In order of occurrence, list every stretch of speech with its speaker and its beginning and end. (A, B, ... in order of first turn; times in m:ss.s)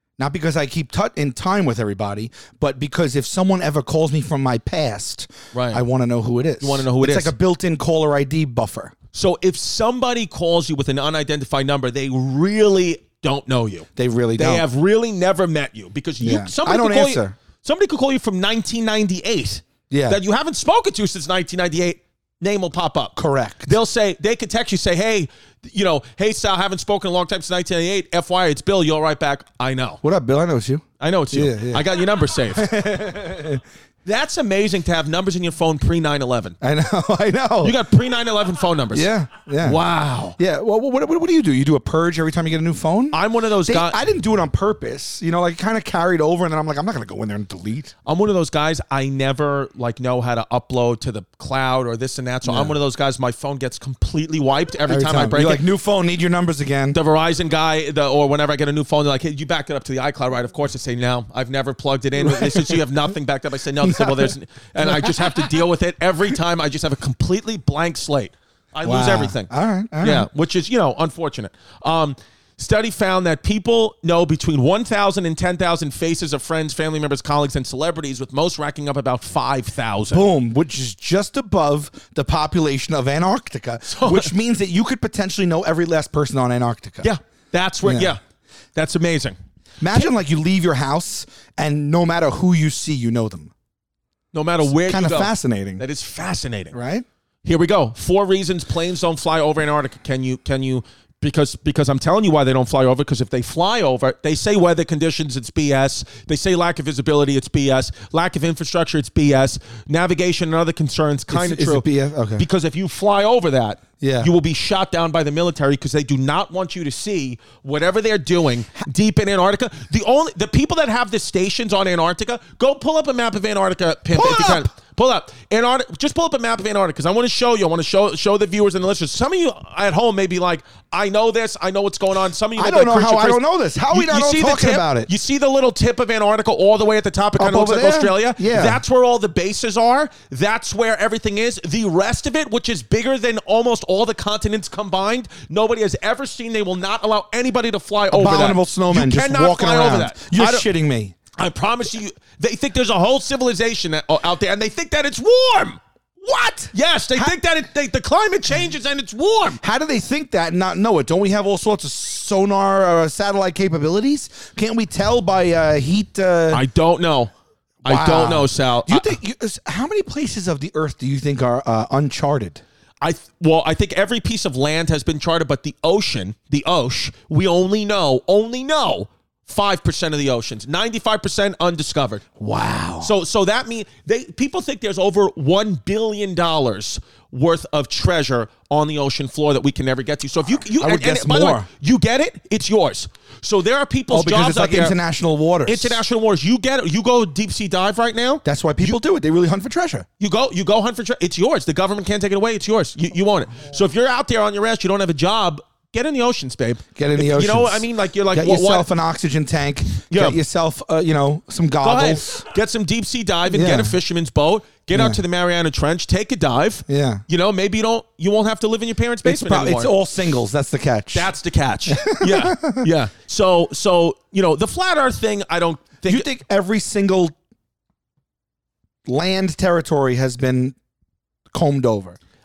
0:00.2-0:08.9 A
0:05.5-0:05.8 B
0:06.6-0:07.3 B
0:09.1-0:30.0 B
0:14.0-0:14.6 A
0:16.2-0:17.3 A
0:19.9-0:20.2 A
0:23.2-0:23.7 A
0:30.0-0:31.9 A
0:31.0-0:32.8 B
0:32.5-0:33.6 A
0:34.0-0:36.6 B
0:36.6-0:37.8 A
0:37.6-0:39.1 B
0:38.9-0:39.8 A
0:39.6-0:40.4 B
0:40.4-0:47.9 A
0:43.1-0:44.0 B
0:48.0-0:55.6 B
0:52.4-0:52.8 A
0:54.9-0:57.0 A
0:56.9-1:20.3 B
1:02.2-1:02.8 A
1:03.8-1:05.4 A
1:08.8-1:10.3 A
1:20.1-1:27.1 A
1:23.9-1:24.3 B
1:27.0-1:28.2 B
1:27.8-1:28.1 A
1:28.7-1:29.4 B
1:29.8-1:33.5 A
1:34.3-1:36.8 B
1:34.7-1:35.8 A
1:36.7-1:37.0 A
1:37.4-2:30.7 B
1:51.3-1:52.5 A
1:54.0-1:54.3 A
2:04.1-2:04.7 A
2:12.6-2:15.1 A
2:17.4-2:18.8 A
2:28.1-2:31.1 A
2:31.4-2:35.8 B
2:36.2-2:37.4 A
2:36.7-2:39.6 B
2:39.6-2:46.6 A
2:46.5-2:47.3 B
2:47.8-2:49.2 B
2:47.8-2:52.6 A
2:53.0-3:02.2 B
3:02.4-3:03.1 A
3:03.0-3:15.0 B
3:10.7-3:11.7 A
3:14.1-3:16.0 A
3:15.6-3:19.0 B
3:18.4-3:20.0 A
3:20.2-3:28.9 B
3:27.0-3:32.4 A
3:30.1-3:30.4 B
3:31.8-3:39.9 B
3:33.5-3:34.0 A
3:34.9-3:35.2 A
3:36.9-3:37.2 A
3:39.2-3:41.3 A
3:41.1-3:46.3 B
3:41.9-3:42.9 A
3:46.0-3:47.3 A
3:49.0-3:50.8 A
3:51.5-3:52.2 A